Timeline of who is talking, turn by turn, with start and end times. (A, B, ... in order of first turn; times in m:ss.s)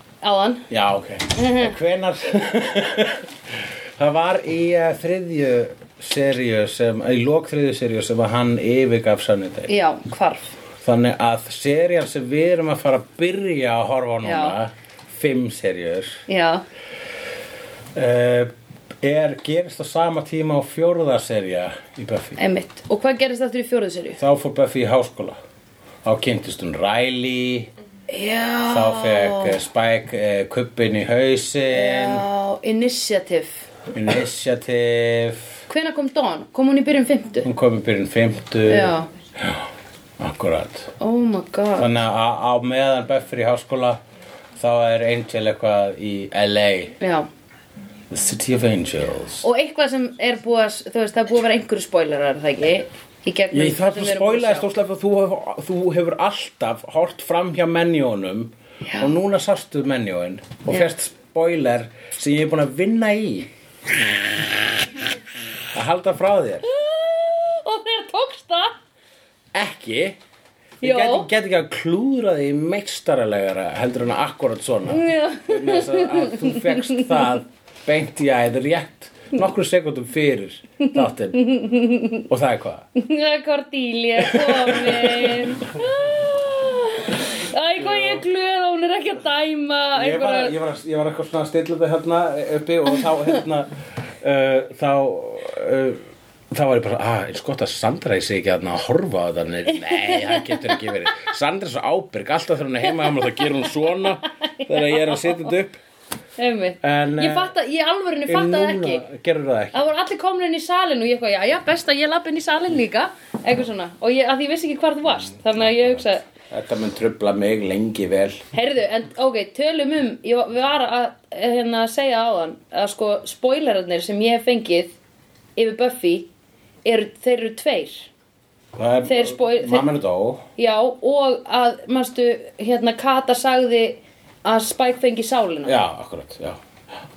0:00.2-0:00.6 A
0:00.7-0:03.3 B
0:01.4-0:01.8 A
0:04.0-0:09.7 B
0:09.7-0:10.5 A
0:10.8-0:16.2 B
0:14.2-0:14.6 A
0:16.3-0:16.6 A
0:18.0-0:18.5 B
0:19.0-0:22.4 B
0:22.4-0:24.2 A
0:24.2-0:25.4 B
0:26.0-0:27.7 B
0:28.1-0:29.6 A
0:28.7-0:32.2 B
0:31.7-0:33.7 A
0:33.9-0:35.6 B
0:35.7-0:37.5 A
0:37.4-0:39.7 B
0:38.7-0:39.1 A
0:40.2-0:40.9 B
0:41.0-0:41.9 A
0:41.8-0:44.0 B
0:44.6-0:47.0 B
0:47.0-0:47.3 A
0:48.1-0:49.5 B
0:49.4-0:54.7 A
0:53.5-1:03.5 B
1:05.7-1:06.7 B
1:06.6-1:08.8 A
1:09.5-1:10.2 B
1:10.8-1:11.3 A
1:10.8-1:21.5 B
1:14.9-1:17.3 A
1:21.0-1:22.2 A
1:22.3-1:22.9 B
1:23.0-1:30.5 A
1:24.2-1:25.8 B
1:27.8-1:28.2 B
1:30.0-1:33.7 B
1:34.2-1:45.8 B
1:39.8-1:40.6 A
1:44.2-1:45.5 A
1:46.4-1:49.0 A
1:46.8-1:47.5 B
1:48.3-1:49.8 B
1:49.7-1:56.2 A
1:55.6-1:58.4 B
1:58.5-2:04.9 A
2:05.6-2:06.3 A
2:06.8-2:08.1 A
2:08.8-2:10.4 B
2:09.1-2:09.9 A
2:10.6-2:15.8 A
2:15.6-2:16.6 B